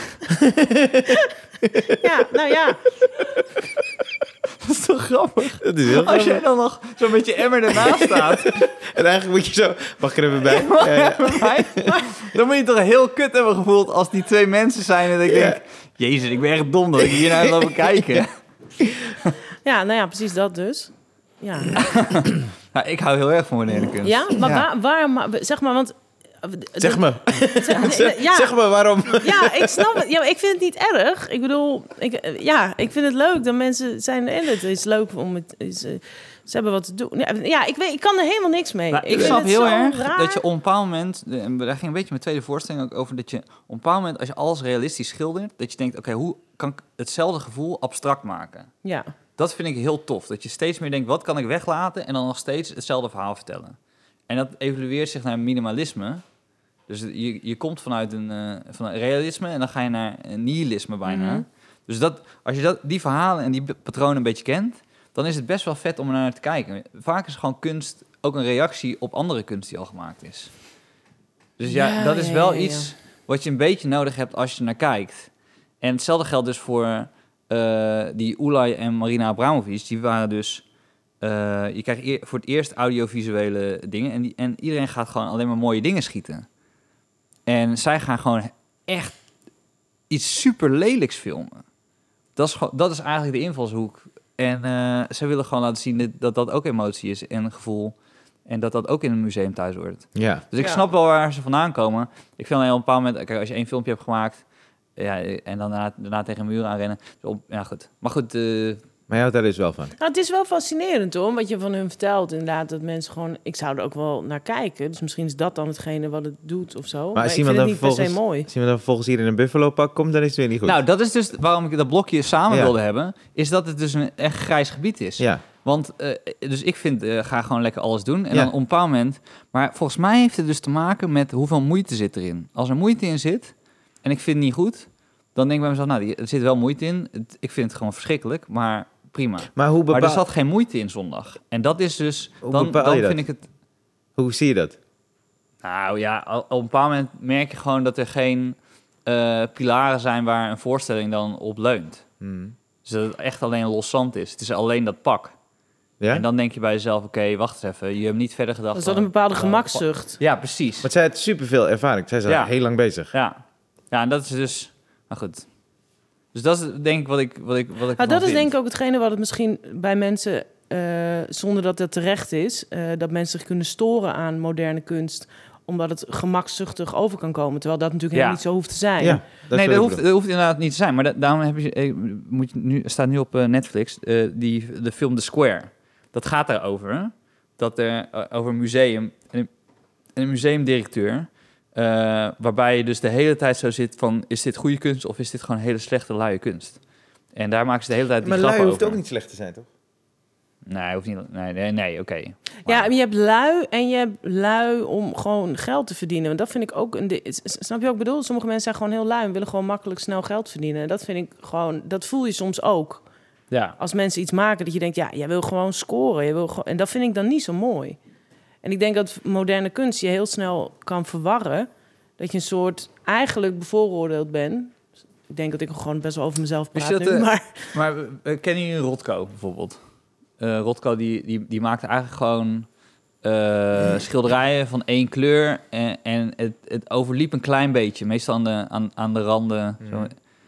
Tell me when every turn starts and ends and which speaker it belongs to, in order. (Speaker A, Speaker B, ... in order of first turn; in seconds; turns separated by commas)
Speaker A: 0.3-2.0, Speaker B: 1.9-2.9, Speaker C: 4.6-8.6, Speaker A: 5.6-6.4, Speaker A: 7.7-11.9, Speaker C: 10.5-18.3, Speaker A: 15.2-15.6, Speaker A: 17.1-18.2, Speaker B: 19.6-21.8, Speaker C: 21.8-24.7, Speaker B: 24.0-40.4, Speaker A: 26.8-30.0, Speaker C: 38.9-48.7, Speaker B: 48.8-49.1, Speaker C: 49.4-53.8, Speaker C: 54.3-56.2, Speaker C: 56.9-70.5, Speaker B: 61.0-61.4, Speaker C: 71.6-80.6, Speaker B: 71.7-72.9, Speaker C: 81.2-86.5, Speaker C: 87.5-89.1, Speaker C: 90.1-91.6, Speaker C: 92.4-104.4, Speaker A: 100.1-100.4, Speaker C: 105.0-108.8, Speaker A: 109.1-109.9, Speaker B: 110.0-118.5, Speaker A: 117.1-120.8, Speaker C: 120.6-143.4, Speaker A: 139.5-140.2, Speaker A: 142.4-143.2, Speaker A: 144.2-144.8, Speaker C: 145.6-152.0, Speaker A: 152.2-152.5, Speaker C: 152.8-155.3, Speaker C: 156.1-160.9, Speaker B: 158.7-160.2, Speaker A: 160.8-163.1, Speaker C: 162.3-162.5, Speaker C: 163.1-163.4, Speaker C: 163.9-165.5, Speaker C: 166.3-168.5, Speaker B: 168.0-179.2, Speaker C: 178.1-178.4, Speaker A: 179.0-180.0, Speaker C: 179.5-189.5, Speaker C: 190.2-196.8, Speaker C: 197.3-199.0, Speaker A: 198.2-199.7, Speaker C: 200.7-202.9, Speaker B: 202.7-213.0, Speaker C: 213.5-213.8, Speaker B: 213.8-218.0, Speaker B: 218.6-224.8, Speaker B: 225.3-227.7, Speaker C: 226.7-229.8, Speaker C: 230.4-232.7, Speaker C: 233.2-240.2, Speaker A: 239.8-240.1